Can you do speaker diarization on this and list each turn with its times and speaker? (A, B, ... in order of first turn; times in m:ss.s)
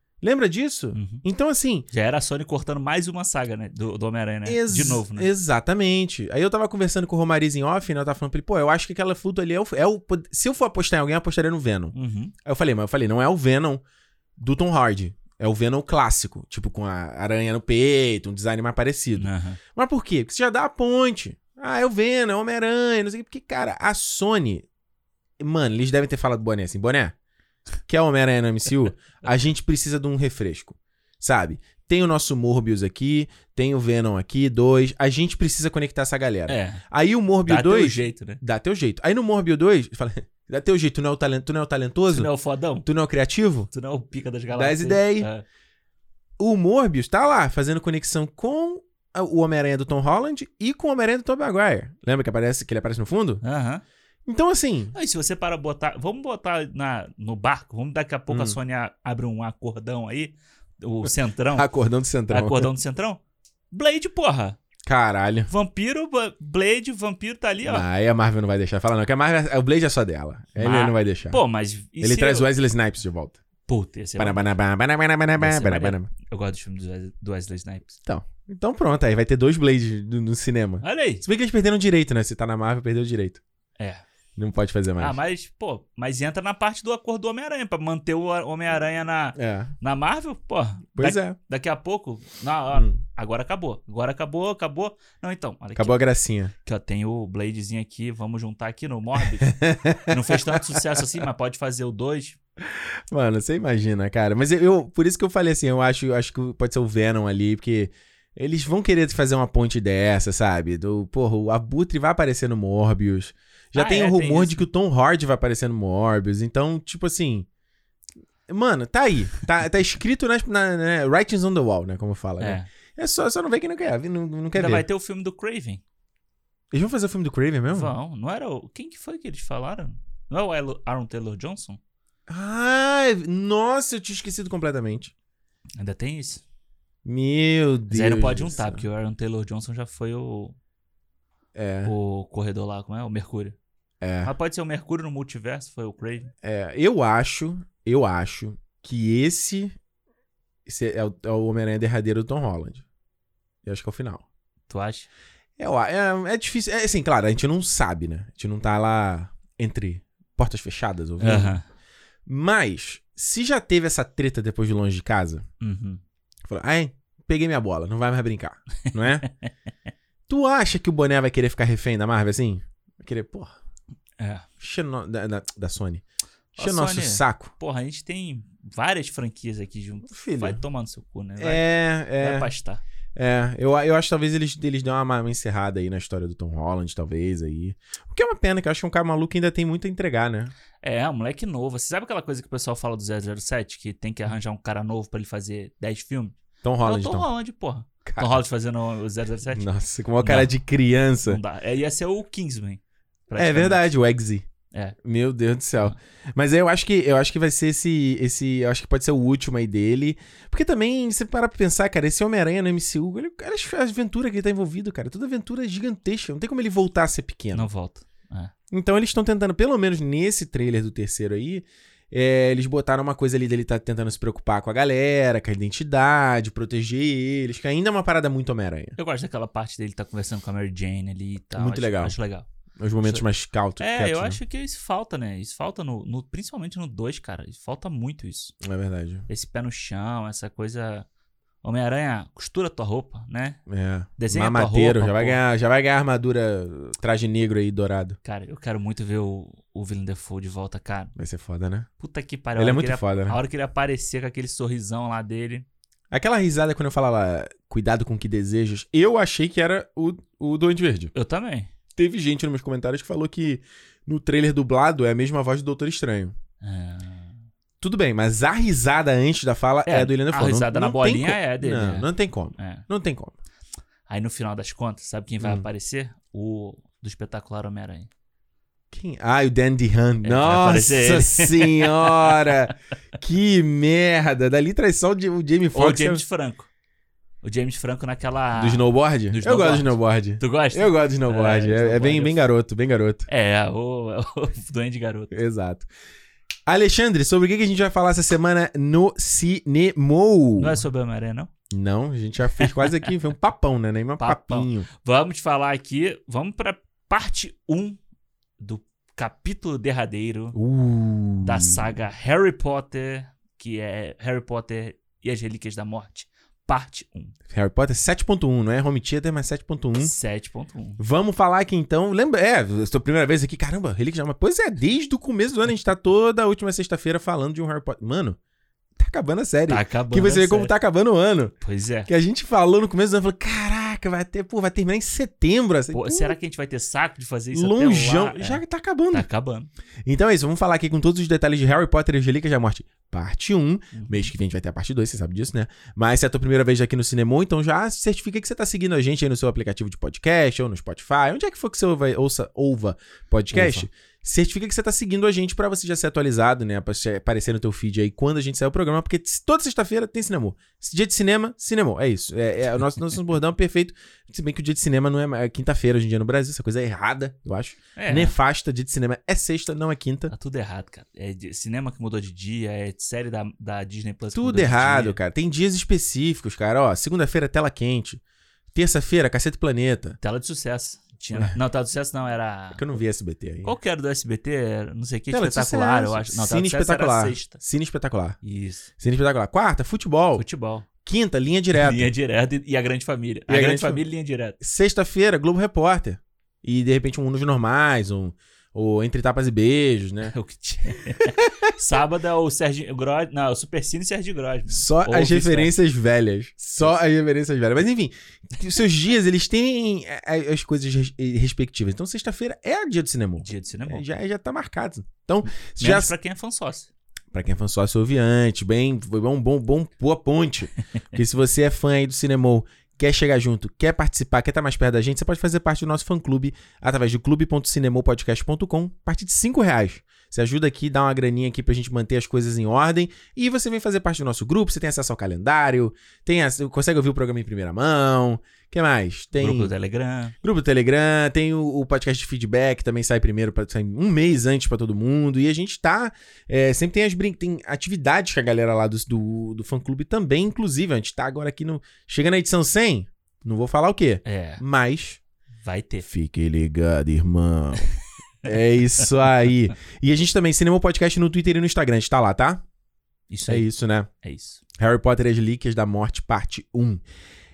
0:00.2-0:01.9 A
0:00.9-0:01.2 B
0:01.9-0:05.3 B
0:04.4-0:13.8 A
0:11.9-0:12.3 B
0:14.4-0:24.6 A
0:19.2-0:19.6 B
0:25.4-0:27.1 A
0:27.9-0:42.3 A
0:36.5-0:36.8 B
0:37.4-0:38.4 B
0:42.1-0:42.9 B
0:42.8-0:43.7 A
0:43.7-0:45.4 B
0:44.6-0:45.3 A
0:46.4-0:53.4 A
0:53.4-0:53.8 B
0:54.2-0:54.9 A
0:54.9-1:01.7 B
0:58.3-0:58.6 A
1:01.1-1:02.7 A
1:02.3-1:04.6 B
1:04.9-1:05.5 A
1:05.5-1:07.9 B
1:07.6-1:11.4 A
1:10.6-1:12.5 B
1:12.0-1:13.4 A
1:13.7-1:14.5 B
1:14.2-1:16.1 A
1:15.4-1:18.0 B
1:18.1-1:23.4 A
1:20.8-1:21.2 B
1:23.8-1:24.0 B
1:24.4-1:25.2 A
1:25.0-1:36.0 B
1:29.4-1:29.7 A
1:30.9-1:31.4 A
1:35.8-1:36.5 A
1:36.6-1:42.4 B
1:39.4-1:41.0 A
1:42.7-1:57.5 A
1:53.7-1:54.6 B
1:58.5-2:04.8 A
2:02.4-2:02.7 B
2:04.5-2:05.8 B
2:06.7-2:07.9 A
2:07.7-2:11.8 B
2:12.3-2:15.1 A
2:15.8-2:16.4 B
2:17.0-2:18.8 A
2:17.9-2:20.6 B
2:21.6-2:21.9 A
2:21.8-2:23.6 B
2:24.0-2:24.3 A
2:24.2-2:26.3 B
2:26.4-2:29.8 A
2:30.6-2:32.8 A
2:33.6-2:34.2 A
2:34.7-2:35.1 B
2:35.6-2:41.6 A
2:41.2-2:41.6 B
2:42.2-2:45.4 A
2:45.6-2:46.0 B
2:46.5-2:49.2 A
2:48.9-2:49.5 B
2:50.3-2:53.6 A
2:54.2-2:54.4 B
2:54.6-2:56.0 A
2:56.6-3:02.8 B
2:56.6-2:57.5 A
3:00.1-3:00.6 A
3:01.4-3:02.5 A
3:03.1-3:10.5 A
3:10.8-3:19.7 B
3:16.6-3:17.3 A
3:18.1-3:18.4 A
3:19.5-3:21.4 A
3:20.2-3:20.5 B
3:21.2-3:23.9 B
3:23.4-3:24.4 A
3:24.7-3:25.0 B
3:25.0-3:37.7 A
3:37.5-3:38.5 B
3:38.7-3:49.0 A
3:49.0-3:52.4 B
3:51.6-3:52.1 A
3:52.8-3:54.4 A
3:53.8-3:58.5 B
3:58.6-3:59.2 A
3:59.3-4:01.1 B
4:01.6-4:03.6 B
4:03.7-4:08.2 A
4:04.2-4:05.4 B
4:08.2-4:11.1 B
4:11.2-4:11.9 A
4:12.0-4:15.6 B
4:12.6-4:13.4 A
4:16.1-4:21.1 A
4:21.1-4:21.7 B
4:22.0-4:26.4 A
4:26.6-4:27.4 B
4:27.8-4:33.4 A
4:29.9-4:32.9 B
4:34.1-4:38.1 B
4:35.4-4:35.7 A
4:38.9-4:46.2 A
4:40.2-4:42.7 B
4:45.7-4:46.7 B
4:47.4-4:52.4 B
4:48.6-4:53.3 A
4:53.3-4:55.3 B
4:55.3-4:55.9 A
4:56.7-5:00.8 A
5:00.6-5:01.5 B
5:01.7-5:04.9 A
5:02.5-5:03.1 B
5:04.2-5:08.0 B
5:08.6-5:10.6 B
5:10.5-5:11.8 A
5:11.4-5:17.4 B
5:17.5-5:20.1 A
5:20.0-5:21.0 B
5:21.0-5:28.4 A
5:29.0-5:31.5 A
5:29.7-5:30.7 B
5:31.6-5:32.1 B
5:32.1-5:36.4 A
5:35.9-5:39.7 B
5:37.5-5:39.3 A
5:40.0-6:10.3 A
5:43.9-5:44.3 B
5:53.5-5:53.9 B
6:08.0-6:08.4 B
6:10.3-6:15.2 B
6:14.3-6:18.2 A
6:18.7-6:20.2 A
6:20.2-6:23.0 B
6:22.7-6:23.8 A
6:23.6-6:27.6 B
6:25.3-6:28.4 A
6:28.4-6:28.9 B
6:29.0-6:30.4 A
6:30.4-6:30.9 B
6:31.0-6:32.1 A
6:31.7-6:34.6 B
6:33.5-6:34.0 A
6:34.6-6:40.3 A
6:40.2-6:45.7 B
6:41.2-6:41.7 A
6:44.7-6:56.1 A
6:53.4-6:54.0 B
6:55.8-6:56.9 B
6:57.3-7:19.7 A
7:19.4-7:20.4 B
7:20.4-7:35.2 A
7:34.2-7:34.6 B
7:35.6-7:36.0 B
7:36.0-7:37.9 A
7:38.4-7:42.6 A
7:43.3-7:43.7 B
7:43.5-7:44.1 A
7:44.2-7:44.6 B
7:44.8-7:47.0 A